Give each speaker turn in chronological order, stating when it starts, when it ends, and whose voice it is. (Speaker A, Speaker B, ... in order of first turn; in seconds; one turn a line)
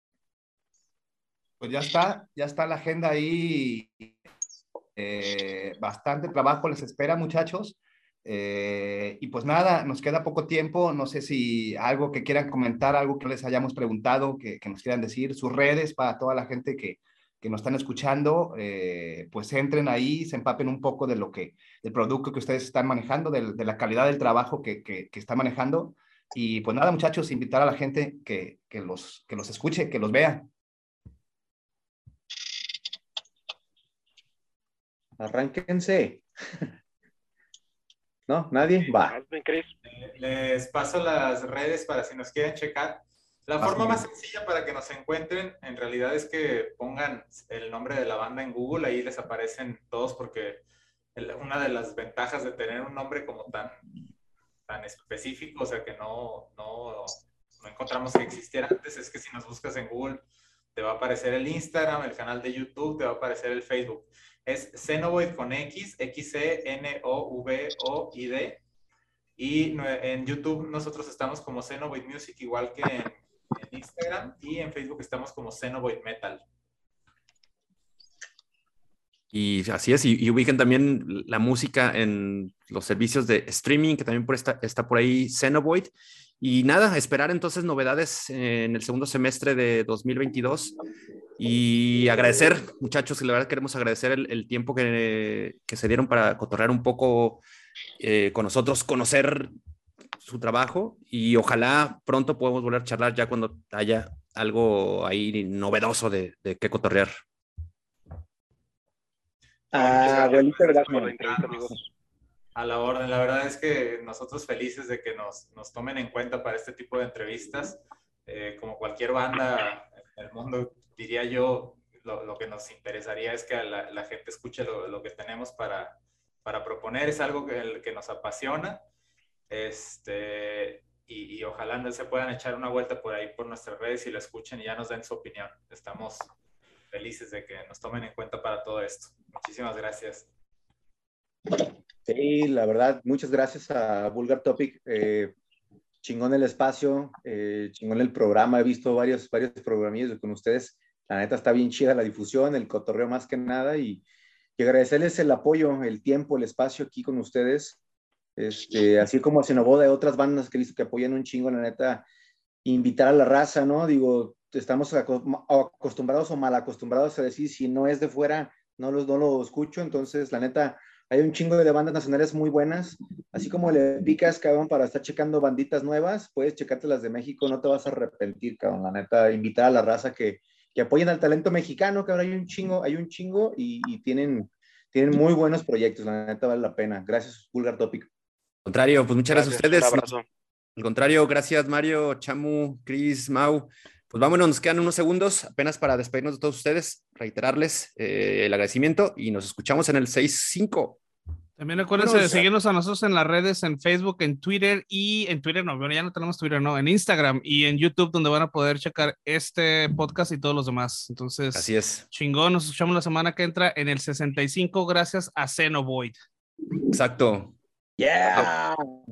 Speaker A: 1.6-4.1
Speaker A: 5.0-30.4
Speaker B: 35.2-36.6
Speaker B: 38.3-39.1
Speaker C: 38.8-39.7
Speaker D: 39.8-50.6
Speaker B: 43.6-44.0
Speaker D: 51.1-53.8
Speaker D: 54.7-60.2
Speaker D: 60.7-68.6
Speaker D: 69.4-76.4
Speaker E: 79.3-90.7
Speaker E: 91.4-97.4
Speaker E: 98.0-99.5
Speaker E: 100.2-107.1
Speaker B: 109.7-111.5
Speaker D: 109.8-111.7
Speaker C: 109.8-111.8
Speaker D: 112.5-128.8
Speaker D: 129.5-136.3
Speaker D: 136.9-140.3
Speaker B: 142.1-145.3
Speaker B: 146.0-154.0
Speaker B: 154.6-157.8
Speaker B: 158.3-162.1
Speaker B: 162.6-188.1
Speaker E: 188.6-190.1
Speaker C: 189.3-190.2
Speaker E: 190.8-201.0
Speaker F: 201.6-216.2
Speaker E: 202.0-202.4
Speaker E: 211.5-212.1
Speaker E: 216.9-217.6
Speaker B: 218.0-218.8